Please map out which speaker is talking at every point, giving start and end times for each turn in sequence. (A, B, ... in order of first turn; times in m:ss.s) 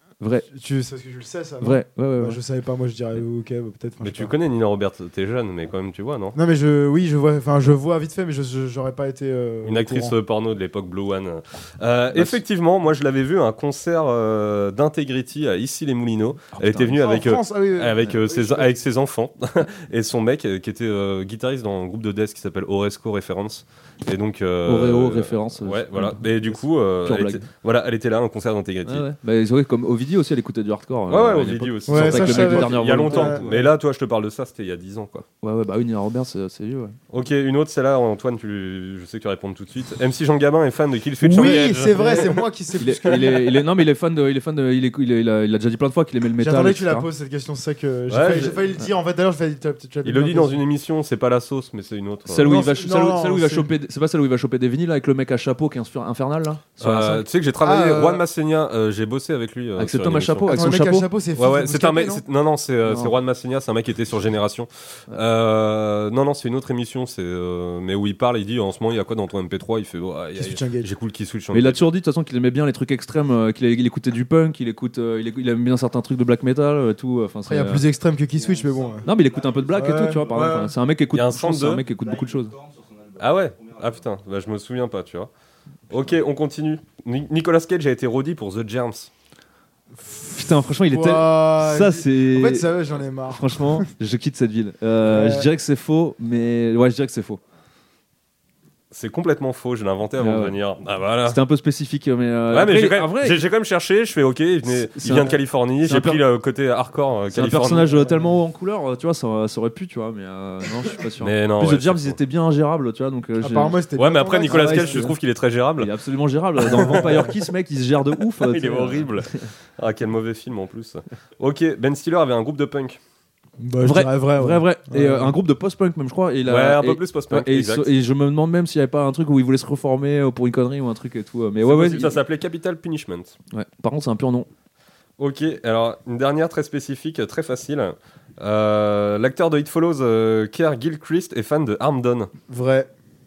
0:00.2-0:00.5 A
0:00.5-0:04.3 B
0:01.6-0:02.4 A
0:04.0-0:06.4 C
0:06.3-0:10.1 B
0:09.6-0:29.0 C
0:16.5-0:17.0 A
0:16.9-0:18.8 B
0:24.6-0:27.5 A
0:28.8-0:33.7 A
0:31.1-0:35.2 C
0:31.9-0:33.5 B
0:35.4-0:37.0 A
0:37.1-0:42.4 C
0:41.2-0:47.1 A
0:41.2-0:43.6 B
0:46.4-0:50.6 B
0:48.1-0:48.7 C
0:50.0-0:52.5 C
0:52.3-0:57.2 A
0:52.4-0:53.7 B
0:56.8-1:00.7 C
0:57.6-0:58.2 B
0:59.8-1:01.1 A
1:00.5-1:02.2 B
1:01.4-1:11.8 C
1:10.4-1:10.9 B
1:11.5-1:17.8 A
1:17.5-1:19.1 B
1:19.0-1:22.6 A
1:19.7-1:20.7 B
1:21.1-1:21.8 C
1:23.1-1:25.3 C
1:25.9-1:29.1 C
1:30.1-1:33.9 B
1:30.3-1:32.7 A
1:33.3-1:37.4 A
1:35.0-1:35.5 B
1:38.9-1:41.4 C
1:40.2-1:40.6 A
1:41.2-1:43.4 A
1:42.5-1:47.9 C
1:44.7-1:46.2 A
1:47.3-1:53.8 A
1:48.0-1:48.3 B
1:51.2-1:52.2 C
1:53.4-1:55.1 B
1:54.0-1:55.9 C
1:54.5-1:55.2 A
1:55.8-1:59.5 A
1:56.6-1:57.4 C
1:58.3-2:03.0 C
2:03.6-2:05.3 B
2:03.8-2:12.2 A
2:06.4-2:07.9 C
2:11.6-2:13.4 C
2:13.5-2:14.5 A
2:15.2-2:22.3 C
2:22.5-2:22.9 B